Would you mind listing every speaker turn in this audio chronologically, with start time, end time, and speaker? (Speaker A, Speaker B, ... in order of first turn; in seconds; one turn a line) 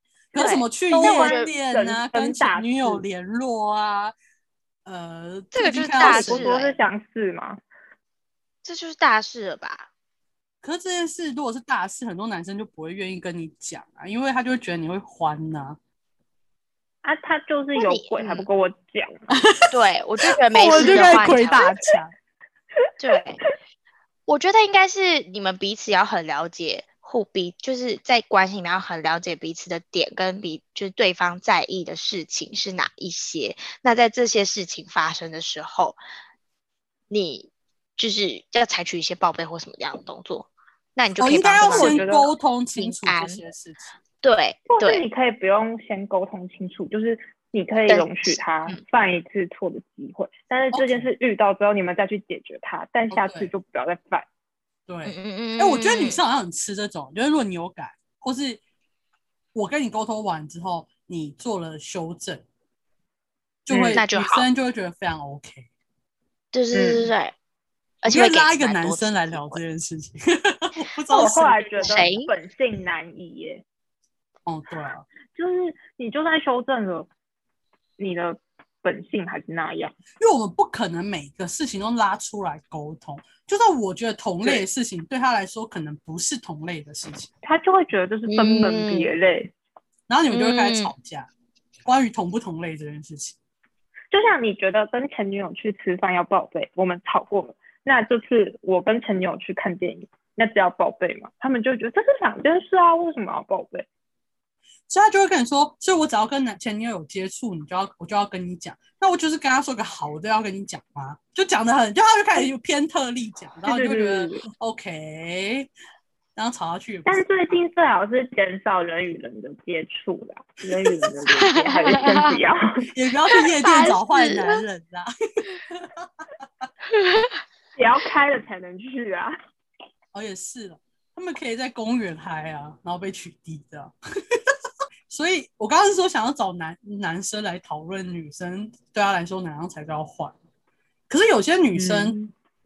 Speaker A: 0.3-4.1
Speaker B: 0.3-1.5
Speaker C: 0.9-3.0
Speaker A: 4.8-6.5
Speaker B: 5.5-6.8
Speaker C: 6.0-7.6
Speaker B: 8.6-9.9
Speaker A: 10.6-15.8
Speaker C: 17.0-19.3
Speaker B: 17.8-18.5
Speaker A: 19.3-19.8
Speaker B: 19.7-21.7
Speaker A: 20.5-22.1
Speaker C: 20.8-21.2
Speaker B: 23.0-23.4
Speaker B: 24.3-36.0
Speaker B: 37.1-42.1
Speaker A: 41.2-43.9
Speaker C: 41.6-42.3
Speaker B: 42.8-43.4
Speaker B: 44.2-45.0
Speaker C: 44.7-54.2
Speaker B: 47.9-48.8
Speaker A: 50.7-51.1
Speaker A: 53.1-53.5
Speaker A: 54.9-58.6
Speaker B: 55.0-56.2
Speaker A: 59.5-62.4
Speaker A: 63.6-65.7
Speaker C: 63.7-64.0
Speaker B: 63.9-64.5
Speaker B: 66.5-67.3
Speaker C: 66.7-67.0
Speaker B: 68.0-69.6
Speaker A: 68.0-72.1
Speaker C: 71.1-73.6
Speaker B: 71.8-72.3
Speaker A: 74.5-75.0
Speaker C: 75.3-77.1
Speaker C: 78.0-79.9
Speaker A: 80.2-87.3
Speaker C: 87.4-89.5
Speaker B: 88.2-89.1
Speaker A: 90.1-91.3
Speaker B: 90.3-90.9
Speaker A: 91.8-93.3
Speaker C: 94.1-103.9
Speaker A: 104.9-115.7
Speaker C: 113.7-114.5
Speaker A: 116.3-117.2
Speaker C: 117.0-122.9
Speaker B: 121.3-122.4
Speaker A: 122.9-126.1
Speaker B: 123.6-124.6
Speaker B: 126.9-127.4
Speaker C: 127.8-129.3
Speaker A: 130.1-134.5
Speaker A: 135.1-140.3
Speaker A: 141.1-142.1
Speaker C: 141.7-142.3